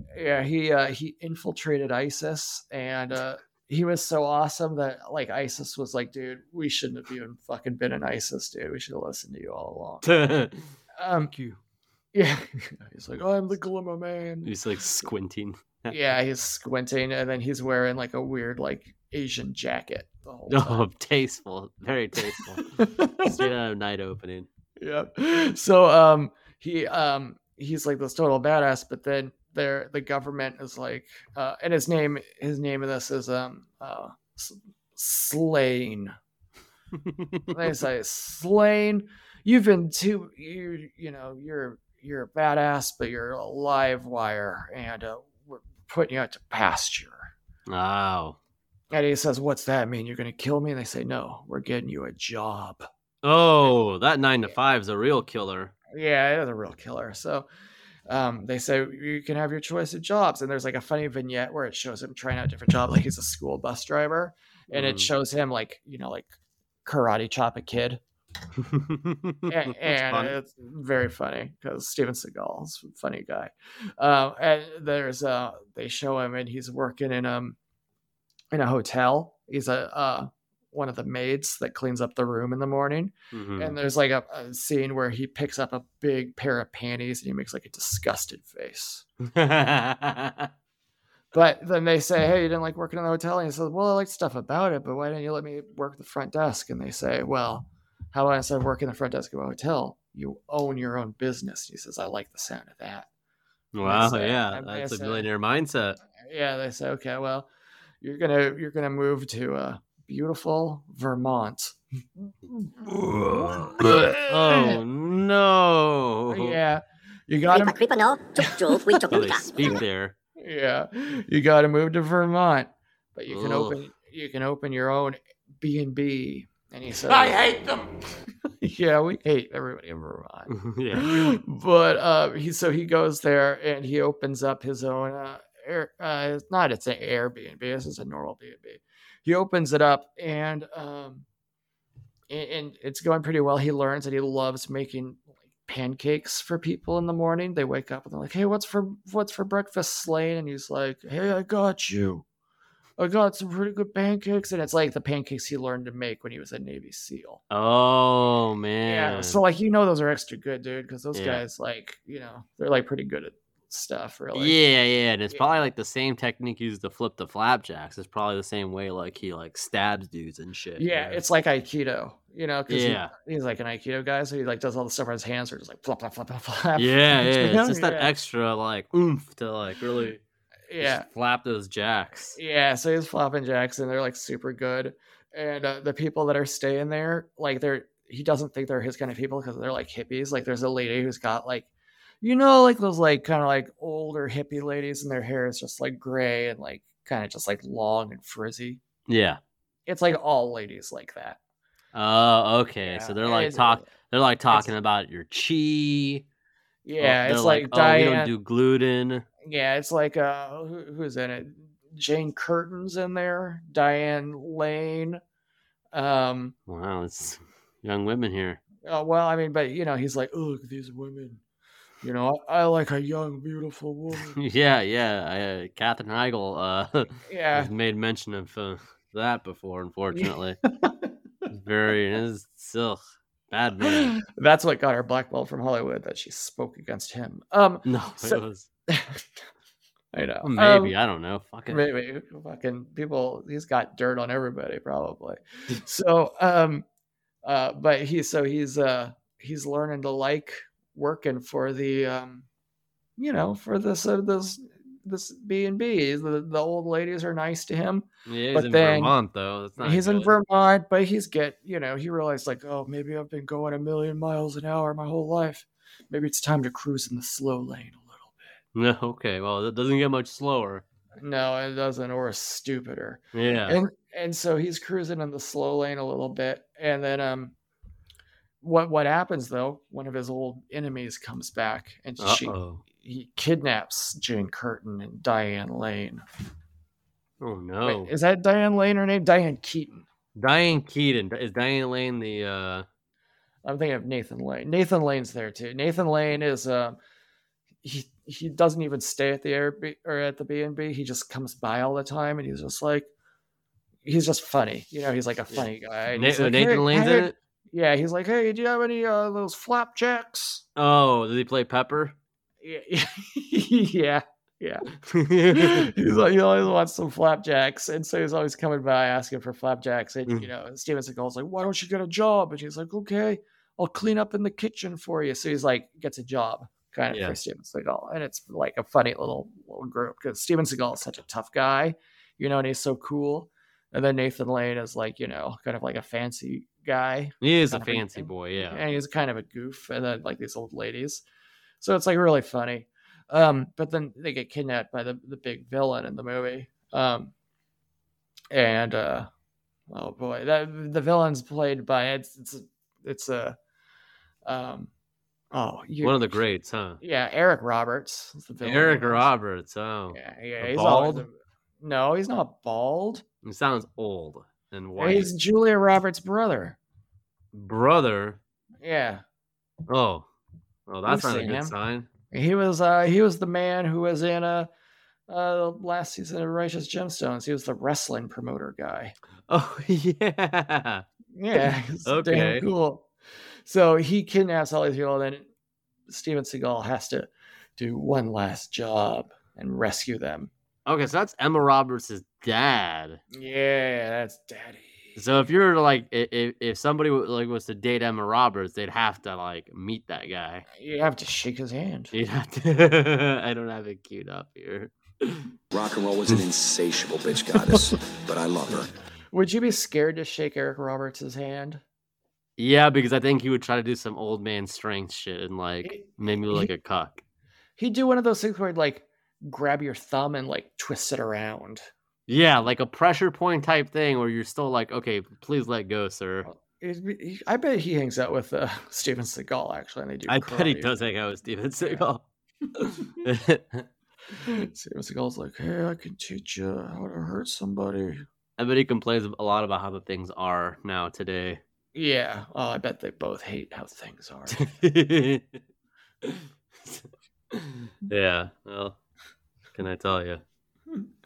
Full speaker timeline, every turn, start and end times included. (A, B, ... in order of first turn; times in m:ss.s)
0:00.1-0:10.0 A
0:10.0-0:10.6 B
0:11.0-0:11.3 A
0:11.3-0:11.6 B
0:12.1-0:14.5 A
0:14.4-0:16.0 B
0:15.9-0:20.8 A
0:20.5-0:24.5 B
0:22.6-0:23.4 A
0:24.8-0:36.1 A
0:37.0-0:37.5 B
0:37.5-0:47.3 A
0:47.7-0:48.4 B
0:48.9-0:52.9 A
0:53.2-0:55.7 B
0:55.9-0:57.5 A
0:58.1-1:06.3 A
1:04.7-1:05.1 B
1:06.8-1:08.0 A
1:08.6-1:10.3 B
1:09.5-1:17.6 A
1:18.5-1:29.0 A
1:23.3-1:23.8 B
1:29.3-1:30.5 B
1:31.3-1:43.1 A
1:43.7-1:46.0 B
1:43.8-1:45.3 A
1:46.2-1:47.5 A
1:48.0-1:51.8 A
1:53.2-1:53.7 B
1:53.3-1:54.8 A
1:54.3-1:56.6 B
1:56.3-1:57.8 A
1:57.5-1:59.7 C
1:59.1-2:00.1 B
2:00.4-2:07.8 A
2:03.3-2:03.8 B
2:08.6-2:21.3 A
2:10.5-2:11.2 B
2:22.3-2:32.2 A
2:33.0-2:37.4 A
2:37.5-2:39.4 B
2:38.8-2:44.6 A
2:41.1-2:41.4 B
2:44.3-2:51.2 B
2:45.3-2:45.6 A
2:50.8-2:58.1 A
2:52.7-2:53.1 B
2:56.8-3:00.2 B
3:00.7-3:01.1 A
3:00.8-3:02.4 B
3:02.3-3:11.7 A
3:12.2-3:18.8 A
3:19.1-3:19.4 B
3:19.9-3:21.4 A
3:21.9-3:26.2 B
3:22.8-3:23.8 A
3:26.8-3:28.3 A
3:27.0-3:29.2 B
3:29.4-3:35.2 A
3:35.9-3:36.6 A
3:36.7-3:38.6 B
3:38.8-3:41.4 A
3:42.0-3:44.3 A
3:44.3-3:50.6 B
3:47.3-3:47.7 A
3:50.1-3:51.1 A
3:51.5-3:54.2 B
3:53.9-3:59.2 A
3:57.8-3:58.7 B
4:00.1-4:01.0 A
4:00.4-4:01.8 B
4:01.7-4:06.8 A
4:07.4-4:12.4 A
4:13.2-4:19.1 A
4:18.3-4:20.3 B
4:19.8-4:28.5 A
4:28.7-4:30.8 B
4:31.2-4:37.5 A
4:33.3-4:33.8 B
4:38.6-4:46.2 A
4:42.2-4:42.8 B
4:47.4-4:48.1 B
4:47.8-4:50.0 A
4:50.4-4:52.8 B
4:53.6-4:57.0 A
4:57.8-5:03.1 A
5:04.0-5:10.6 A
5:05.5-5:07.3 B
5:10.8-5:12.1 B
5:12.6-5:14.8 A
5:15.1-5:15.9 B
5:15.5-5:41.2 A
5:27.1-5:27.4 B
5:37.4-5:38.8 B
5:41.8-5:47.3 A
5:48.5-5:49.3 A
5:49.9-5:53.6 A
5:54.4-5:54.9 A
5:55.5-5:56.3 A
5:56.0-5:57.0 B
5:57.0-5:59.3 A
5:58.6-6:01.3 B
6:00.1-6:03.2 A
6:03.4-6:05.3 B
6:05.0-6:06.8 A
6:07.5-6:08.4 B
6:08.8-6:09.2 A
6:09.9-6:10.3 B
6:10.9-6:12.1 B
6:11.0-6:11.7 A
6:12.3-6:14.7 A
6:15.3-6:19.1 A
6:19.5-6:21.0 B
6:21.3-6:23.1 A
6:21.6-6:22.6 B
6:23.6-6:25.5 A
6:26.1-6:30.5 A
6:30.9-6:33.2 B
6:33.3-6:35.2 A
6:35.2-6:40.6 B
6:40.7-6:42.1 A
6:42.1-6:45.5 B
6:45.7-6:48.9 D
6:49.3-6:51.8 A
6:52.6-6:57.2 B
6:55.8-6:56.7 A
6:57.8-7:01.8 A
7:02.3-7:06.5 B
7:06.4-7:11.0 A
7:10.3-7:12.2 B
7:12.8-7:13.8 B
7:14.4-7:18.3 A
7:18.6-7:21.6 B
7:22.0-7:24.7 A
7:24.5-7:25.6 B
7:26.2-7:29.0 B
7:29.7-7:30.4 B